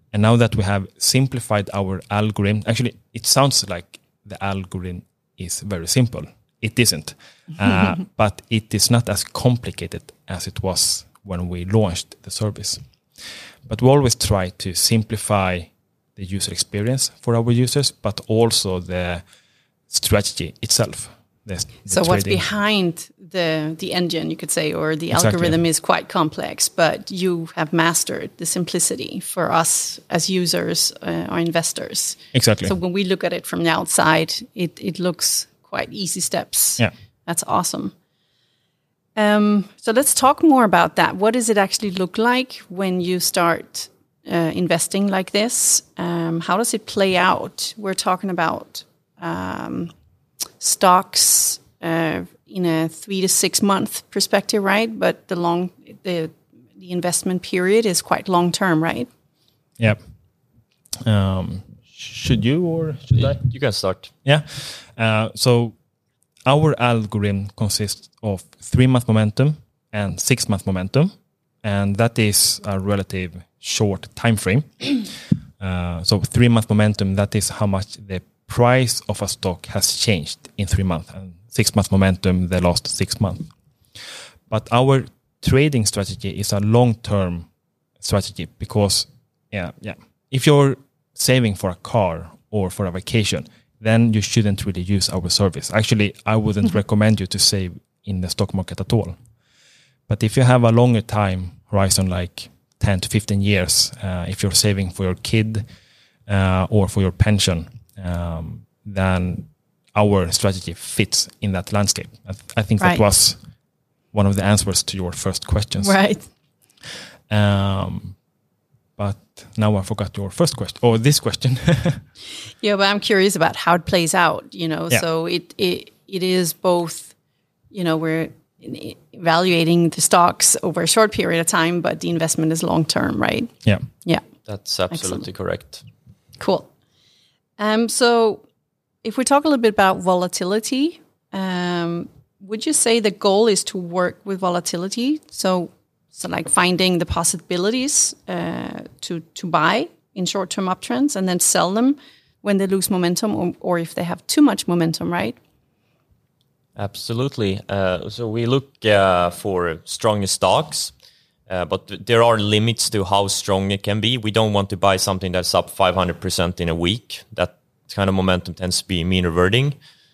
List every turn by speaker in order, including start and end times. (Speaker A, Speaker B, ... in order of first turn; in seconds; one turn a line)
Speaker A: 0.1-12.8
Speaker A: 13.7-19.2
Speaker A: 19.9-22.4
Speaker B: 21.9-37.9
Speaker A: 25.1-25.6
Speaker A: 32.3-32.7
Speaker B: 39.1-49.9
Speaker B: 50.6-59.1
Speaker A: 61.0-63.4
Speaker C: 63.1-64.1
Speaker A: 64.2-65.7
Speaker A: 66.5-83.5
Speaker A: 84.5-87.5
Speaker A: 88.0-99.2
Speaker A: 100.1-105.6
Speaker A: 106.3-113.4
Speaker A: 114.1-116.0
Speaker B: 115.8-116.3
Speaker A: 117.3-118.2
Speaker A: 119.0-122.0
Speaker B: 122.6-127.1
Speaker B: 127.7-134.2
Speaker C: 134.4-135.8
Speaker B: 134.9-135.2
Speaker B: 136.4-136.7
Speaker B: 137.6-138.4
Speaker B: 139.0-155.4
Speaker C: 156.8-160.9
Speaker C: 161.5-169.8